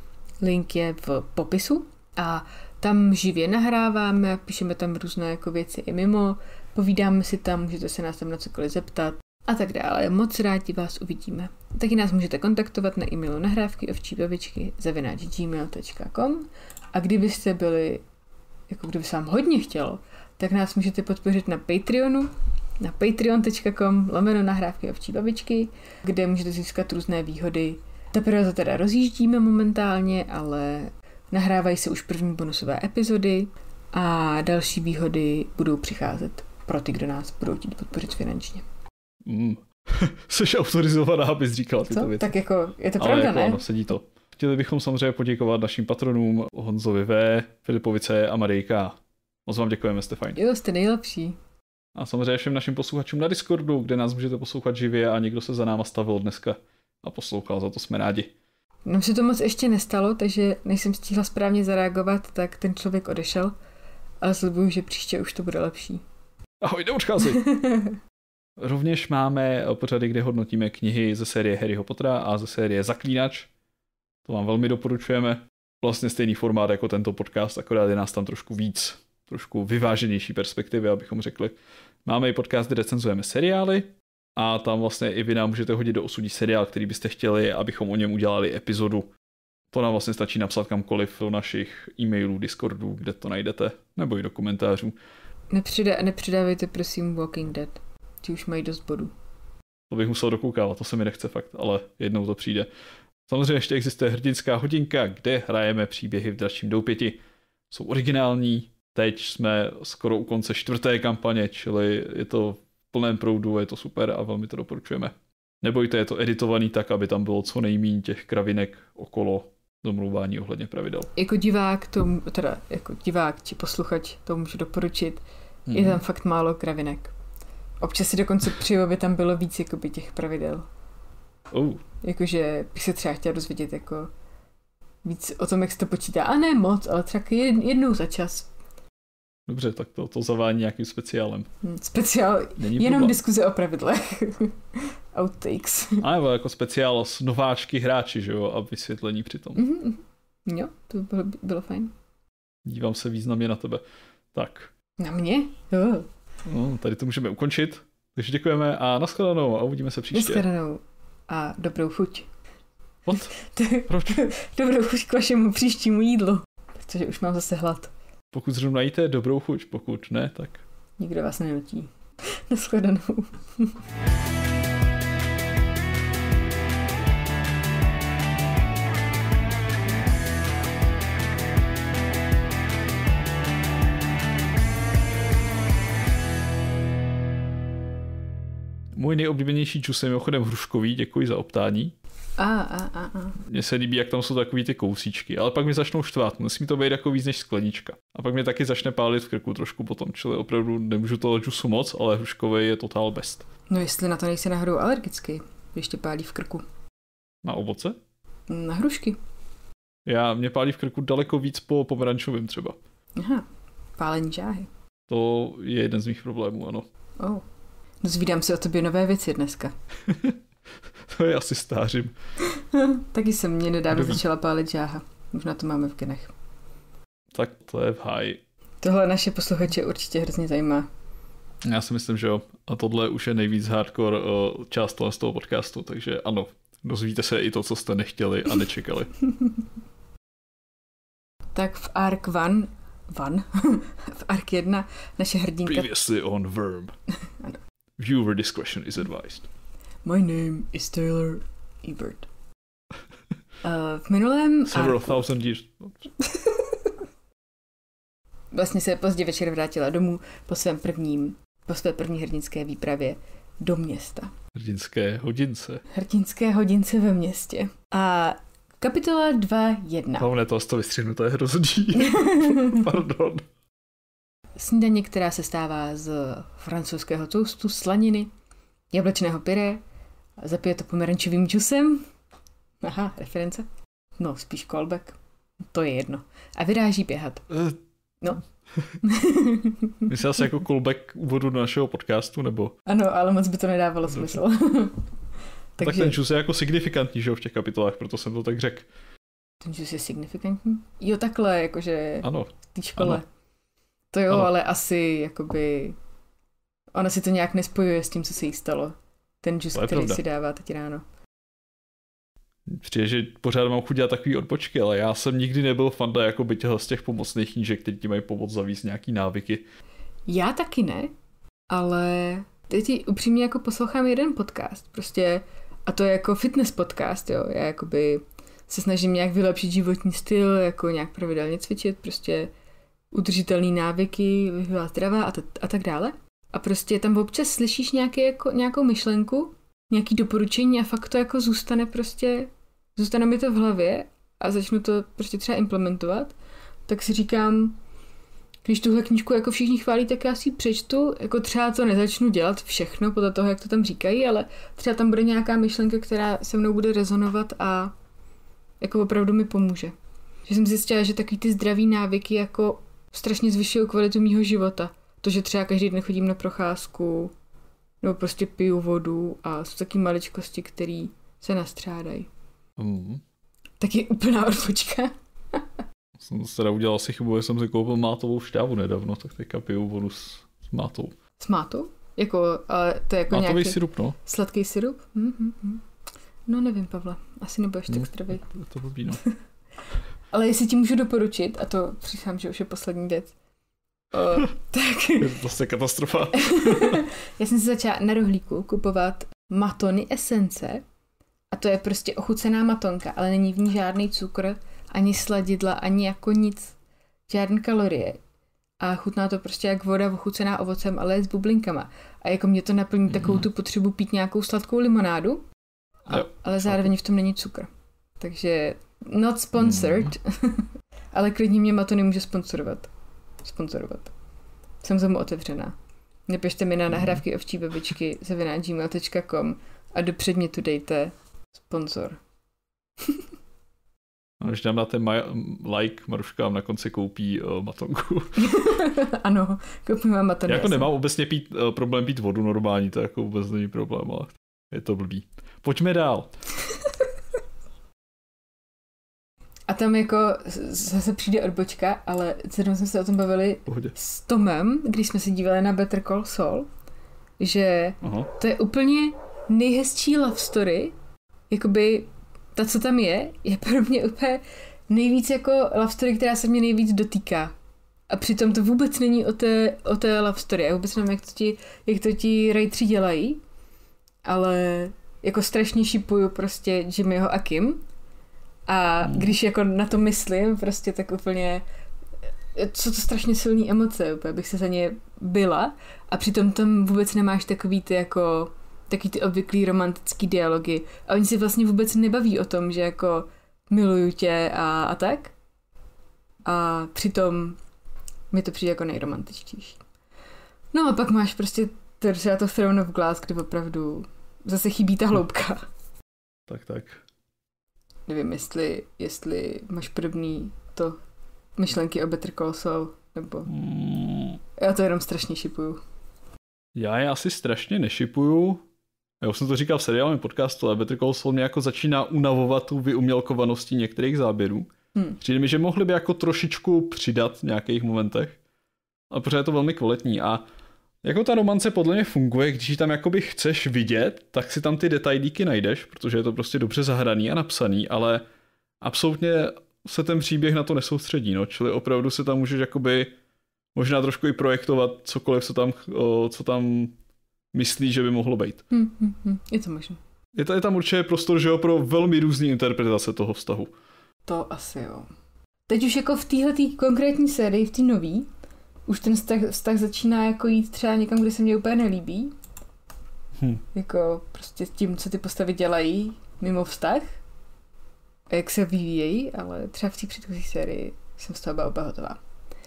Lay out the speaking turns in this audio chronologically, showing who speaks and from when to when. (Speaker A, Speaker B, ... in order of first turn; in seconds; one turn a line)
Speaker A: 0.4-18.0
Speaker A: 18.7-38.6
Speaker B: 39.2-42.3
Speaker A: 41.9-43.6
Speaker B: 43.0-50.4
Speaker A: 50.3-51.4
Speaker B: 51.9-58.3
Speaker A: 58.8-63.5
Speaker A: 64.2-66.0
Speaker B: 66.6-67.4
Speaker A: 67.2-68.0
Speaker B: 68.6-73.5
Speaker B: 74.2-89.1
Speaker B: 89.7-94.9
Speaker A: 95.5-99.1
Speaker B: 99.9-102.7
Speaker B: 103.3-121.1
Speaker A: 121.2-127.1
Speaker B: 125.7-126.0
Speaker A: 127.8-130.7
Speaker B: 131.5-131.8
Speaker A: 132.0-134.1
Speaker A: 135.0-138.5
Speaker B: 139.5-141.5
Speaker A: 141.6-146.0
Speaker B: 142.6-143.2
Speaker B: 146.0-149.6
Speaker A: 149.6-151.9
Speaker B: 152.6-153.8
Speaker B: 154.3-154.7
Speaker A: 155.0-156.1
Speaker B: 156.4-160.4
Speaker A: 160.1-162.3
Speaker B: 163.1-163.3
Speaker A: 163.3-167.9
Speaker B: 163.9-164.2
Speaker B: 168.3-170.6
Speaker A: 171.0-173.7
Speaker B: 188.9-191.9
Speaker A: 192.4-193.4
Speaker B: 193.4-203.5
Speaker A: 203.7-206.6
Speaker B: 207.4-208.0
Speaker A: 208.5-209.2
Speaker B: 210.1-212.8
Speaker A: 213.2-213.4
Speaker A: 214.0-214.7
Speaker B: 215.1-216.9
Speaker A: 217.2-217.4
Speaker A: 218.0-219.7
Speaker B: 220.1-220.4
Speaker B: 221.1-222.1
Speaker A: 222.5-226.3
Speaker B: 223.9-224.2
Speaker B: 227.3-228.4
Speaker A: 228.8-230.9
Speaker B: 231.6-239.1
Speaker A: 241.5-245.9
Speaker B: 245.7-246.9
Speaker B: 248.0-249.5
Speaker A: 250.0-252.3
Speaker A: 253.6-255.3
Speaker B: 254.7-256.0
Speaker A: 256.2-256.9
Speaker A: 258.5-264.3
Speaker B: 264.5-265.8
Speaker A: 265.9-270.3
Speaker B: 270.2-273.4
Speaker A: 271.9-272.9
Speaker A: 274.6-278.3
Speaker A: 278.9-279.8
Speaker A: 280.4-282.1
Speaker A: 282.8-283.7
Speaker A: 284.2-287.5
Speaker B: 287.5-287.8
Speaker A: 289.0-290.1
Speaker B: 290.1-292.8
Speaker A: 292.9-295.0
Speaker A: 295.8-296.2
Speaker B: 295.8-298.9
Speaker A: 299.6-303.3
Speaker B: 302.2-303.2
Speaker A: 304.1-306.0
Speaker A: 306.9-311.0
Speaker B: 309.7-310.2
Speaker B: 312.7-319.6
Speaker A: 320.3-321.1
Speaker A: 321.7-332.5
Speaker A: 333.1-346.3
Speaker A: 346.9-347.8
Speaker A: 348.6-357.9
Speaker A: 358.8-359.9
Speaker A: 360.4-367.3
Speaker A: 368.0-372.3
Speaker B: 372.8-373.2
Speaker A: 373.8-375.6
Speaker B: 376.2-381.1
Speaker A: 381.4-385.8
Speaker B: 383.3-384.1
Speaker A: 386.5-388.5
Speaker B: 387.9-389.2
Speaker A: 390.3-393.3
Speaker A: 394.1-395.3
Speaker B: 395.2-397.0
Speaker A: 396.4-400.8
Speaker A: 401.5-406.8
Speaker A: 407.3-408.2
Speaker A: 408.8-415.4
Speaker B: 413.1-413.4
Speaker A: 416.1-417.7
Speaker B: 416.1-416.9
Speaker A: 418.2-422.9
Speaker B: 419.6-420.1
Speaker A: 423.4-424.1
Speaker A: 424.8-425.8
Speaker A: 426.3-432.2
Speaker B: 426.9-427.2
Speaker B: 434.4-438.5
Speaker A: 438.4-440.9
Speaker B: 440.5-446.3
Speaker A: 449.7-456.7
Speaker B: 453.7-453.9
Speaker A: 457.4-460.9
Speaker B: 458.0-458.3
Speaker A: 461.5-467.5
Speaker A: 468.1-473.4
Speaker A: 474.2-477.8
Speaker A: 478.7-481.6
Speaker B: 479.0-479.3
Speaker A: 482.5-495.3
Speaker A: 496.4-497.6
Speaker A: 498.3-499.8
Speaker A: 500.7-505.6
Speaker B: 506.5-507.0
Speaker A: 508.1-511.0
Speaker A: 511.6-513.5
Speaker B: 513.5-514.4
Speaker A: 514.6-515.8
Speaker B: 516.7-518.6
Speaker B: 519.2-528.4
Speaker B: 529.1-530.4
Speaker B: 531.0-538.2
Speaker B: 538.8-543.1
Speaker B: 543.7-546.9
Speaker B: 547.5-548.6
Speaker A: 548.7-550.0
Speaker B: 550.3-553.7
Speaker A: 554.3-555.1
Speaker A: 555.7-558.3
Speaker A: 558.9-562.3
Speaker B: 563.4-563.6
Speaker A: 563.7-567.1
Speaker A: 568.3-572.2